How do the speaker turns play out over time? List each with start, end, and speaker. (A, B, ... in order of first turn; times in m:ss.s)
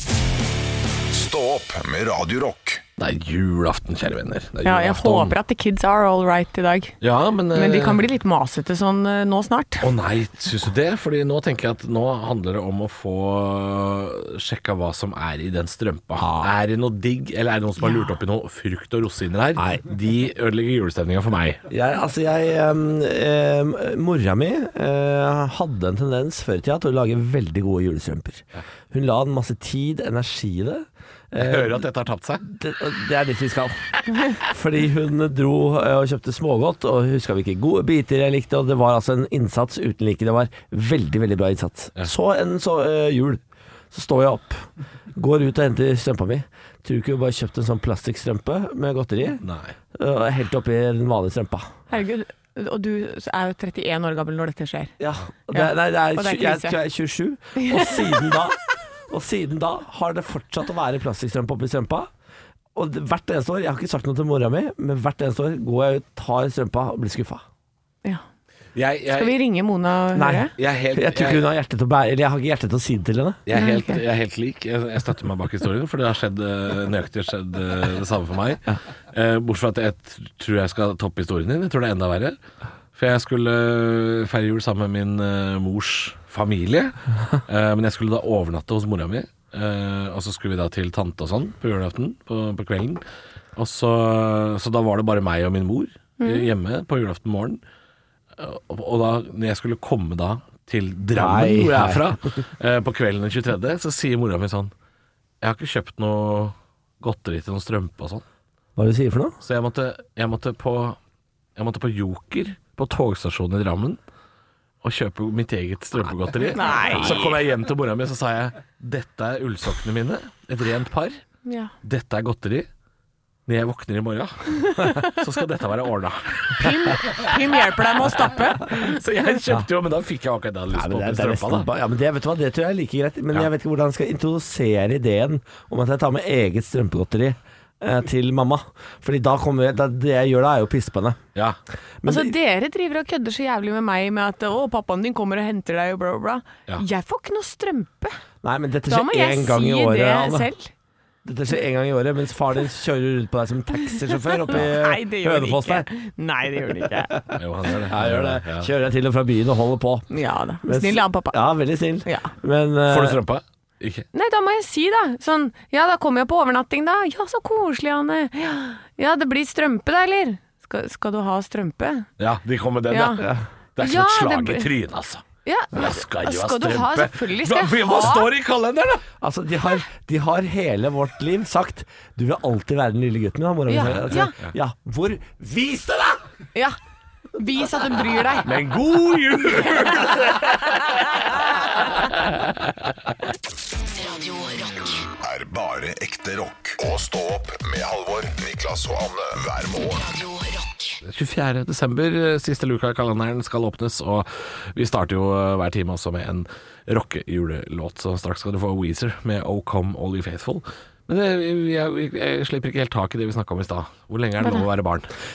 0:01.1-0:02.8 A
0:03.0-0:05.4 B
0:04.6-0:06.9 C
0:07.0-0:08.0 B
0:07.5-0:09.9 C
0:09.8-0:21.6 B
0:16.2-0:16.5 D
0:21.7-0:31.8 D
0:31.3-0:32.4 B
0:32.4-0:49.4 D
0:49.4-0:49.7 B
0:49.9-0:51.7 D
0:51.9-0:54.9 C
0:55.0-1:02.1 D
0:55.5-0:56.8 C
0:57.6-0:58.1 C
1:02.7-1:07.4 D
1:08.7-1:09.4 B
1:09.1-1:10.5 C
1:10.1-1:13.5 D
1:10.6-1:11.4 B
1:13.4-1:22.4 B
1:13.5-1:14.0 C
1:22.9-1:33.0 B
1:33.6-1:37.6 B
1:36.2-1:36.5 C
1:38.4-1:44.7 B
1:41.1-1:42.0 D
1:45.4-1:48.2 B
1:48.8-1:49.4 D
1:49.4-1:51.0 B
1:51.6-1:54.0 B
1:54.8-2:01.2 B
1:56.5-1:57.4 C
2:01.4-2:01.7 C
2:01.8-2:02.7 B
2:03.5-2:07.6 B
2:04.8-2:05.2 C
2:06.5-2:09.0 C
2:08.3-2:11.7 B
2:10.7-2:21.2 D
2:22.0-2:22.3 D
2:22.0-2:28.2 C
2:28.4-2:30.5 D
2:28.8-2:30.7 C
2:31.2-2:35.9 D
2:34.2-2:37.2 C
2:37.4-2:38.7 B
2:37.8-2:40.1 D
2:40.1-2:41.4 C
2:40.6-2:43.2 D
2:42.0-2:42.3 C
2:42.9-2:44.0 B
2:44.1-2:52.1 C
2:52.2-2:59.0 B
2:52.9-2:53.3 C
2:53.8-2:54.7 C
2:55.4-2:58.3 C
2:59.2-3:06.2 D
3:03.7-3:04.3 C
3:03.8-3:04.5 B
3:07.3-3:08.5 C
3:08.4-3:11.0 B
3:10.9-3:11.3 C
3:11.6-3:12.4 B
3:15.0-3:20.4 A
3:21.0-3:35.1 B